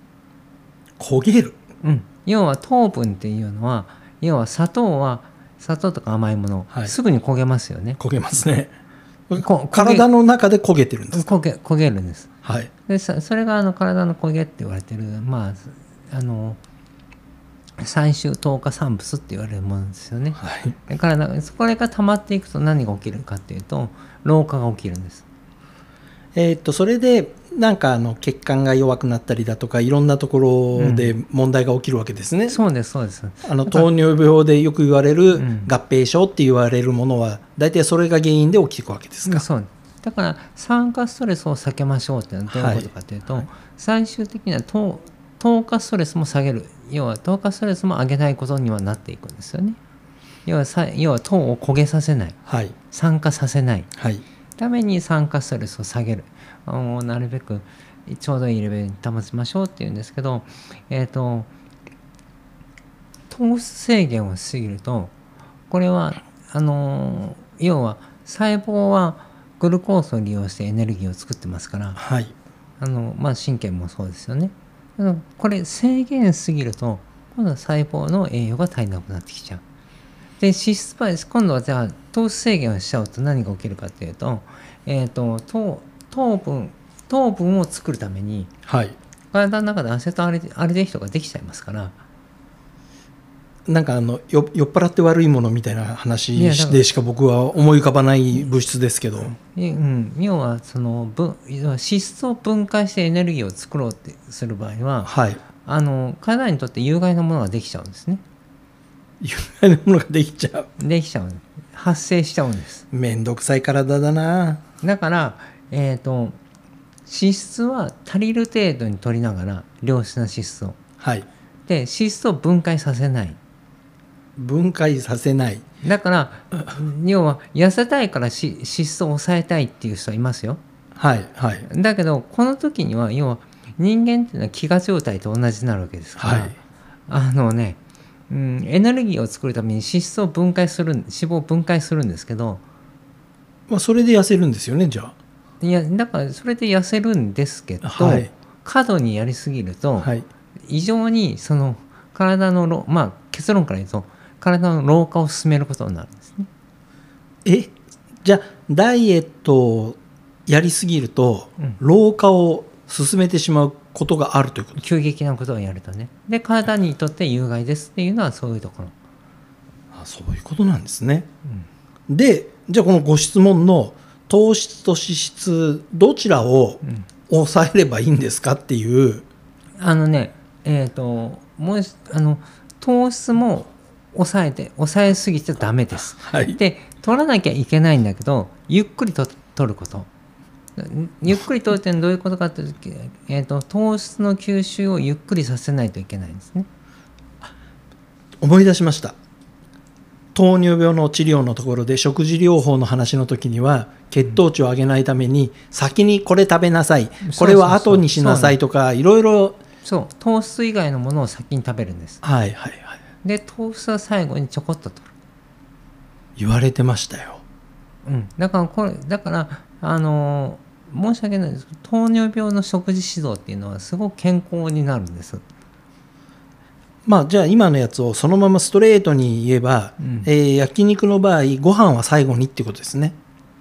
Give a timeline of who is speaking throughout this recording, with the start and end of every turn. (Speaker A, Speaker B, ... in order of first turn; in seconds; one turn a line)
Speaker A: 1.0-1.6
Speaker B: 1.8-8.0
Speaker A: 8.0-8.7
Speaker A: 9.3-11.3
Speaker B: 9.4-10.1
Speaker B: 11.1-12.3
Speaker A: 12.4-12.7
Speaker B: 12.9-16.6
Speaker B: 17.8-25.2
Speaker A: 20.4-20.7
Speaker A: 26.3-32.6
Speaker B: 30.7-31.1
Speaker B: 32.5-33.9
Speaker A: 33.4-39.4
Speaker B: 35.3-35.7
Speaker B: 39.2-49.8
Speaker A: 42.5-43.4
Speaker B: 50.5-52.4
Speaker A: 52.5-52.7
Speaker B: 52.9-53.9
Speaker A: 54.0-54.2
Speaker B: 54.6-61.5
Speaker B: 63.3-65.1
Speaker B: 65.7-72.0
Speaker A: 72.0-72.3
Speaker B: 72.8-79.6
Speaker B: 80.4-88.5
Speaker A: 88.7-89.0
Speaker B: 89.3-92.0
Speaker A: 93.7-99.3
Speaker B: 96.3-96.8
Speaker B: 99.5-105.1
Speaker A: 105.0-105.4
Speaker B: 105.6-108.2
Speaker A: 109.2-110.7
Speaker B: 110.8-112.8
Speaker A: 112.9-114.6
Speaker B: 114.8-116.4
Speaker B: 117.1-120.8
Speaker A: 121.0-121.3
Speaker B: 121.7-123.4
Speaker A: 124.4-125.6
Speaker B: 125.8-130.6
Speaker A: 130.9-131.7
Speaker B: 131.7-136.6
Speaker A: 136.2-136.5
Speaker B: 137.1-137.8
Speaker B: 138.3-142.6
Speaker A: 143.7-145.1
Speaker B: 145.6-150.1
Speaker A: 147.8-148.3
Speaker B: 150.7-156.5
Speaker A: 157.4-164.8
Speaker B: 164.8-168.9
Speaker A: 169.9-171.3
Speaker A: 172.1-179.2
Speaker B: 179.8-190.1
Speaker A: 186.2-186.6
Speaker B: 190.8-196.7
Speaker A: 198.4-199.2
Speaker A: 200.3-209.6
Speaker B: 207.2-208.6
Speaker B: 209.8-212.2
Speaker A: 212.2-213.0
Speaker B: 213.2-215.1
Speaker A: 216.4-217.4
Speaker B: 218.0-225.4
Speaker A: 227.0-233.2
Speaker B: 230.0-230.3